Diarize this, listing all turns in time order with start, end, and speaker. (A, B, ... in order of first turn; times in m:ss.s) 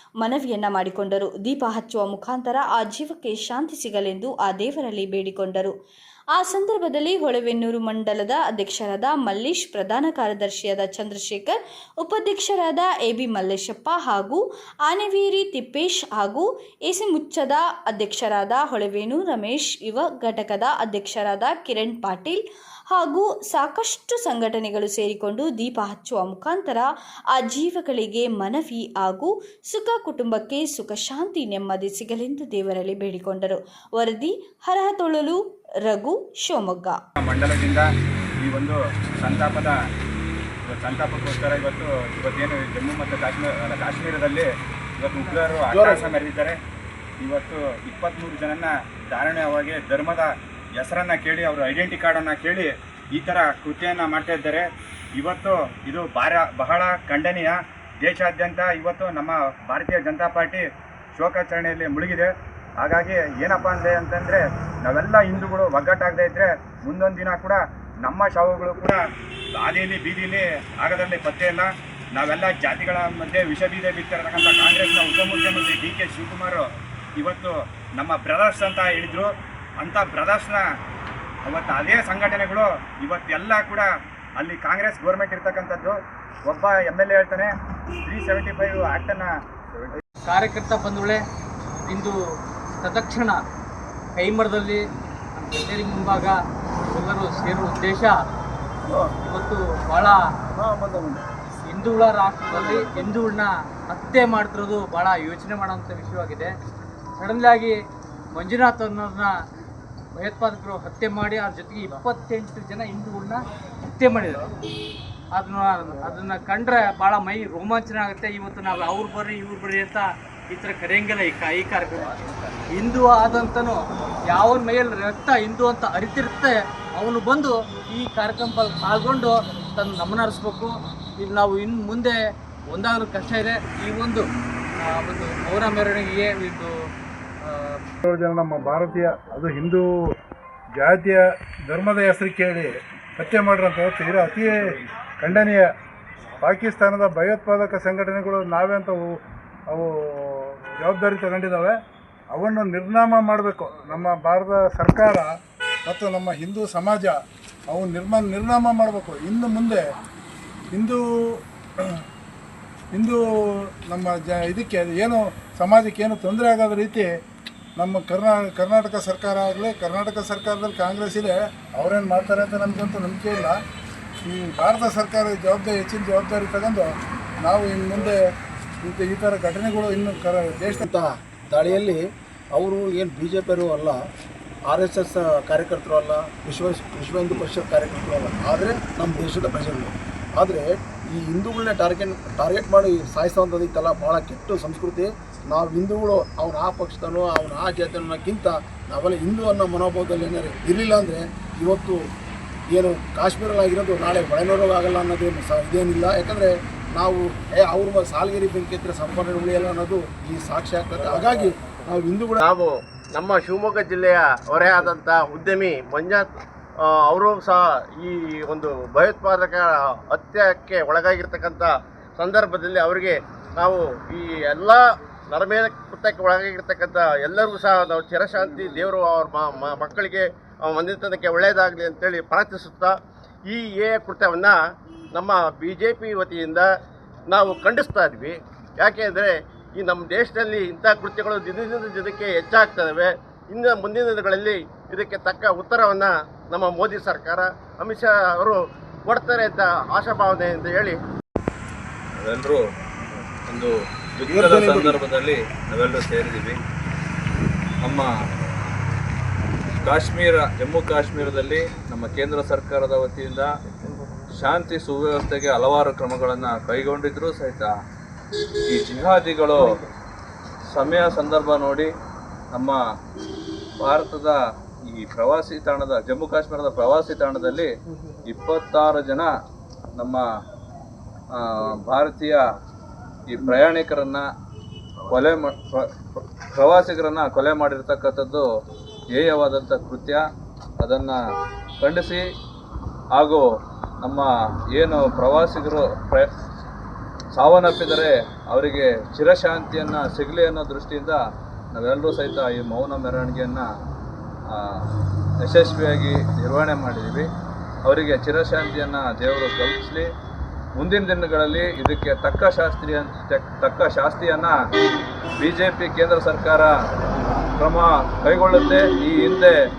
0:00.2-0:05.7 A
0:06.3-0:37.0 A
0:37.2-0:37.9 B
0:38.4-0:39.8 B
0:40.6-0:46.6 B
0:45.7-0:46.2 C
0:47.2-1:09.0 B
1:09.5-1:16.6 B
1:17.2-1:20.6 B
1:21.4-1:27.5 B
1:28.0-1:30.0 B
1:30.3-1:31.2 D
1:31.9-1:32.2 D
1:32.8-1:33.4 D
1:34.2-1:34.8 D
1:35.4-1:36.4 D
1:36.9-1:38.2 D
1:38.8-1:39.1 C
1:39.2-1:40.2 D
1:40.5-1:41.2 C
1:41.6-1:46.5 D
1:42.5-1:43.2 C
1:47.2-1:47.8 D
1:48.4-1:49.3 D
1:50.2-1:53.4 D
1:54.0-1:54.4 D
1:55.3-2:12.2 D
2:12.7-2:14.2 D
2:14.8-2:16.7 D
2:17.4-2:17.8 D
2:18.0-2:19.8 E
2:20.8-2:25.7 E
2:26.4-2:29.2 E
2:29.7-2:31.8 E
2:32.3-2:35.3 E
2:35.8-2:37.2 E
2:37.7-2:39.8 E
2:40.7-2:42.0 E
2:42.9-2:43.2 E
2:43.9-2:47.1 E
2:47.8-2:53.6 E
2:54.2-2:58.2 E
2:58.8-3:00.8 E
3:00.8-3:04.0 C
3:04.7-3:22.1 C
3:22.7-3:32.4 C
3:32.4-3:36.3 F
3:36.9-3:52.9 F
3:53.5-3:54.6 F
3:55.1-3:56.7 F
3:57.3-4:11.0 F
4:12.2-4:12.6 G
4:13.5-4:16.6 G
4:14.3-4:15.0 C
4:17.8-4:18.1 G
4:19.8-4:23.5 G
4:24.3-4:27.7 G
4:28.7-4:29.6 G
4:30.7-4:31.9 G
4:33.8-4:34.4 G
4:34.9-4:37.7 G
4:38.3-4:39.3 G
4:40.0-4:40.2 G
4:41.3-4:42.4 G
4:43.3-4:44.2 G
4:45.1-4:48.4 G
4:49.1-4:50.2 G
4:50.8-4:51.2 G
4:51.8-4:52.2 G
4:53.1-4:53.4 G
4:54.0-4:56.3 G
4:57.3-5:01.2 G
5:01.7-5:03.6 G
5:04.5-5:04.9 G
5:05.4-5:07.3 G
5:07.8-5:10.1 G
5:10.8-5:14.5 G
5:15.4-5:16.7 G
5:17.6-5:19.6 G